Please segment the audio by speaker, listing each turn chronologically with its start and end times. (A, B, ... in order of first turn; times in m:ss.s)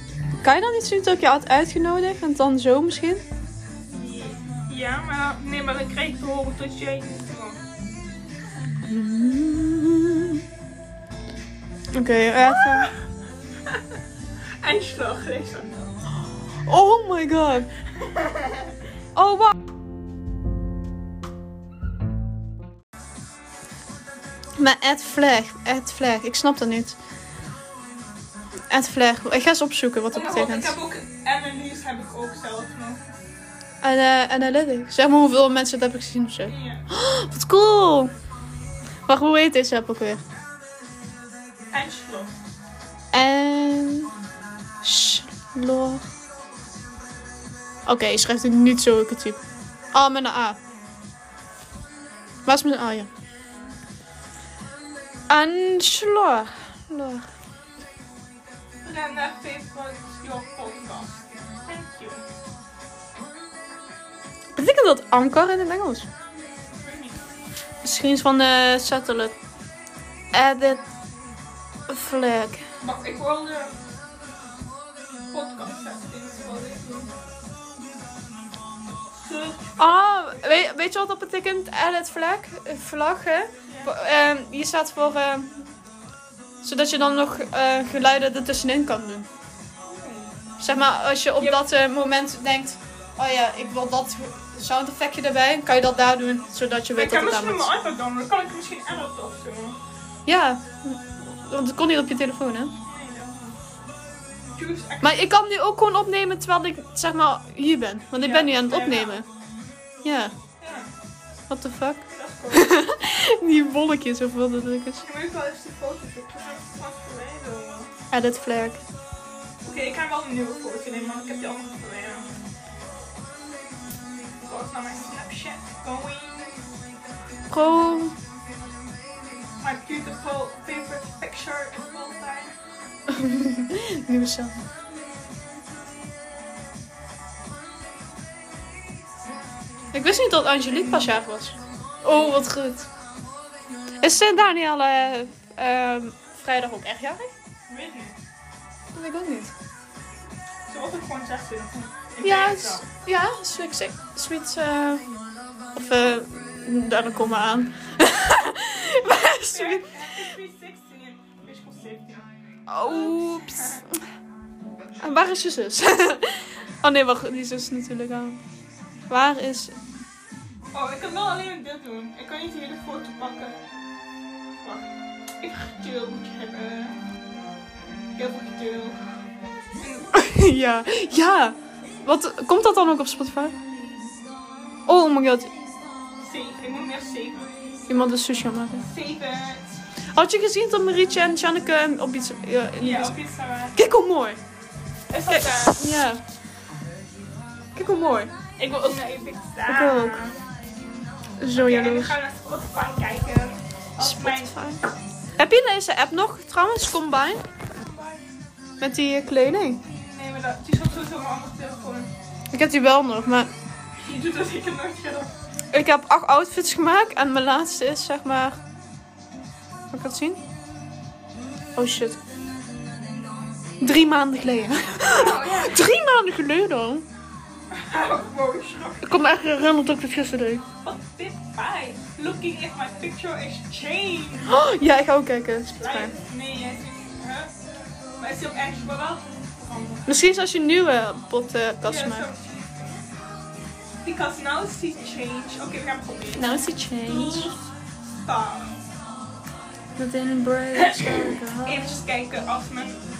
0:00.4-0:03.2 A
0:03.9-0:07.6 B
0:08.8-0:10.4 A
0:11.9-0:12.9 A
0:12.7-0:13.0 B
0:14.6-0:15.8 B
0:16.6-0:17.7 A
0:18.1-0:18.6 B
0:19.1-0:19.6 A
0:24.6-0:27.0 A
0:28.7-0:30.8 A
0:30.1-0:33.0 B
0:33.8-0:38.1 A
0:36.4-0:36.8 B
0:39.1-0:40.2 A
0:41.7-0:42.3 B
0:43.1-0:44.1 A
0:44.8-0:46.0 A
0:47.8-0:49.4 A
0:49.9-0:50.6 A
0:52.4-0:53.1 A
0:55.3-0:57.2 A
0:58.8-1:02.2 B
1:04.5-1:06.1 A
1:06.7-1:07.2 B
1:07.8-1:09.4 A
1:10.3-1:10.8 A
1:11.9-1:12.6 A
1:12.8-1:13.7 B
1:15.3-1:17.1 B
1:19.2-1:19.8 B
1:19.8-1:25.5 A
1:23.7-1:24.0 B
1:26.6-1:29.3 A
1:30.0-1:30.3 B
1:30.6-1:37.7 A
1:36.9-1:39.8 B
1:40.2-1:42.7 A
1:42.8-1:43.5 B
1:44.6-1:45.2 B
1:45.0-1:49.2 A
1:48.2-1:49.2 B
1:50.0-1:50.3 A
1:50.6-1:50.9 B
1:51.5-1:55.0 A
1:52.1-1:52.8 B
1:55.0-1:57.9 B
1:58.1-1:58.8 A
1:59.6-2:02.3 B
2:04.4-2:06.6 B
2:07.5-2:08.1 A
2:09.6-2:12.5 B
2:13.1-2:14.6 A
2:19.9-2:22.9 A
2:24.0-2:27.3 A
2:27.7-2:28.2 B
2:28.9-2:29.5 A
2:30.7-2:32.8 B
2:32.2-2:35.0 A
2:35.7-2:39.9 A
2:39.1-2:43.9 B
2:42.7-2:44.0 A
2:45.0-2:48.4 A
2:49.1-2:49.7 A
2:50.7-2:53.8 B
2:54.6-2:57.0 B
2:58.2-2:59.0 B
2:59.8-3:00.1 B
3:00.1-3:03.5 A
3:04.9-3:05.5 A
3:06.2-3:07.5 B
3:07.9-3:08.8 A
3:08.8-3:09.7 B
3:10.2-3:13.2 A
3:12.8-3:13.8 B
3:13.8-3:14.4 A
3:15.1-3:15.8 B
3:15.3-3:16.2 A
3:17.8-3:19.0 A
3:18.6-3:20.4 B
3:19.7-3:20.2 A
3:21.4-3:22.2 A
3:21.5-3:24.6 B
3:24.0-3:24.8 A
3:25.4-3:27.4 A
3:27.7-3:28.2 B
3:28.8-3:29.8 A
3:29.8-3:32.1 B
3:32.5-3:33.5 A
3:34.0-3:35.3 B
3:35.7-3:38.6 A
3:39.9-3:40.4 A
3:41.8-3:42.2 A
3:43.8-3:47.0 A
3:45.1-3:45.8 B
3:47.7-3:49.2 B
3:49.0-3:50.6 A
3:50.8-3:54.6 B
3:54.5-3:56.1 A
3:55.8-3:57.5 B
3:58.2-4:00.2 B
4:00.1-4:02.3 A
4:01.8-4:03.0 B
4:04.0-4:06.5 B
4:06.3-4:07.5 A
4:07.0-4:07.6 B
4:08.2-4:08.7 B
4:10.0-4:12.0 A
4:10.7-4:13.0 B